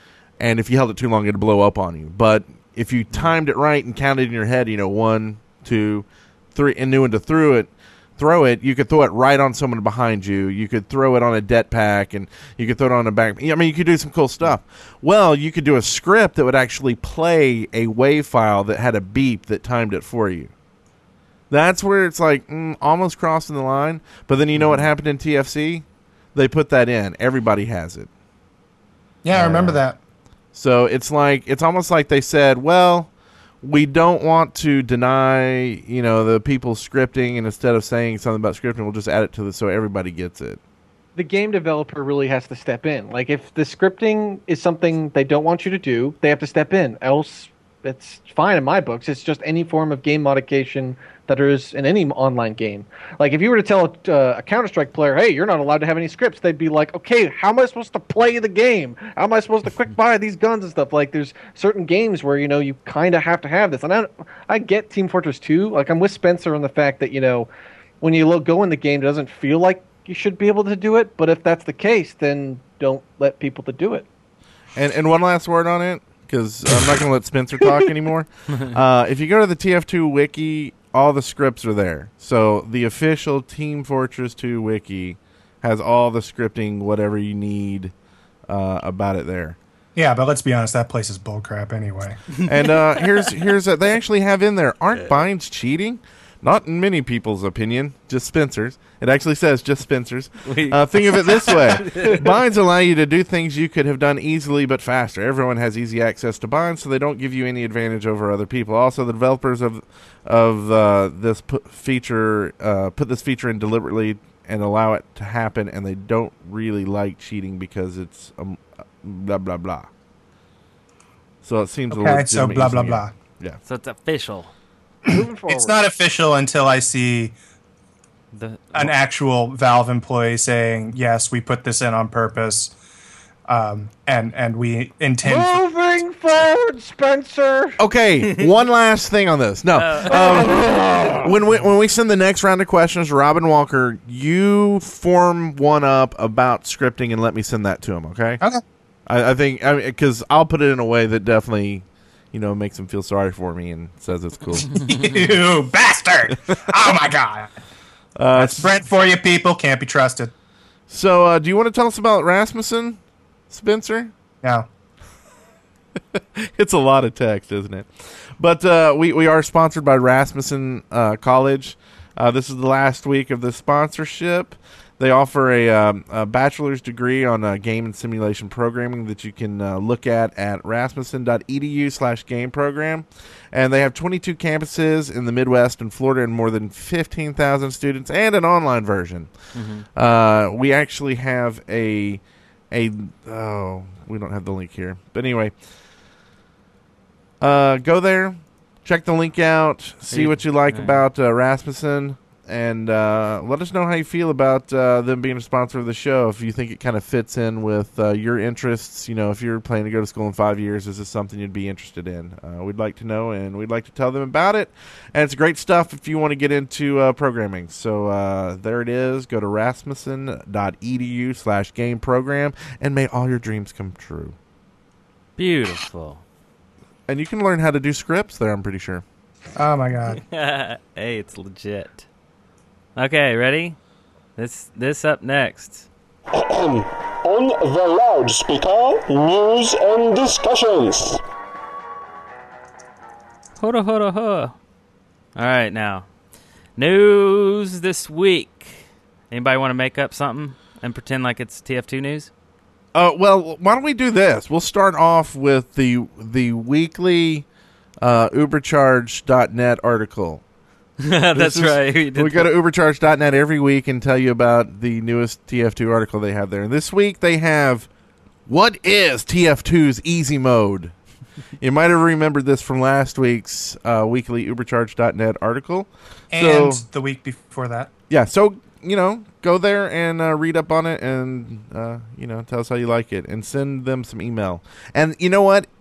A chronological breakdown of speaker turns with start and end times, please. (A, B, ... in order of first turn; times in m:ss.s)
0:00.4-0:20.5 A
0:21.5-0:25.8 A
0:26.3-0:28.1 A
0:29.2-0:30.0 B
0:29.3-0:29.8 A
0:30.5-0:33.1 A
0:33.6-0:40.6 A
0:41.2-1:07.5 C
1:08.0-1:14.0 C
1:14.8-1:27.9 A
1:28.5-1:29.6 A
1:29.9-1:32.2 B
1:32.4-1:59.9 A
1:40.4-1:42.4 D
2:01.4-2:03.6 A
2:01.9-2:03.1 B
2:03.6-2:04.5 D
2:05.1-2:05.8 C
2:05.1-2:07.3 B
2:08.3-2:08.9 D
2:08.7-2:12.7 B
2:13.5-2:15.7 B
2:15.2-2:17.8 C
2:17.8-2:28.4 A
2:19.8-2:20.5 D
2:29.1-2:34.7 A
2:34.7-2:37.5 B
2:38.2-2:38.7 A
2:38.3-2:40.3 B
2:40.9-2:43.0 A
2:43.5-2:44.1 A
2:44.4-2:44.7 B
2:46.1-3:09.3 A
3:09.5-3:09.8 D
3:10.0-3:15.5 A
3:17.4-3:44.3 A
3:20.1-3:21.0 D
3:45.4-3:46.2 D
3:47.1-3:49.0 A
3:49.6-3:50.2 B
3:50.2-3:52.0 D
3:53.0-3:53.8 D
3:54.4-3:55.9 D
3:56.3-4:01.2 E
4:03.6-4:04.5 D
4:05.3-4:06.1 D
4:06.8-4:12.3 D
4:12.9-4:17.4 A
4:18.0-4:20.4 A
4:21.0-4:22.5 D
4:21.3-4:27.9 A
4:28.5-4:30.9 A
4:31.6-4:36.8 A
4:36.3-4:37.9 B
4:38.1-4:45.7 A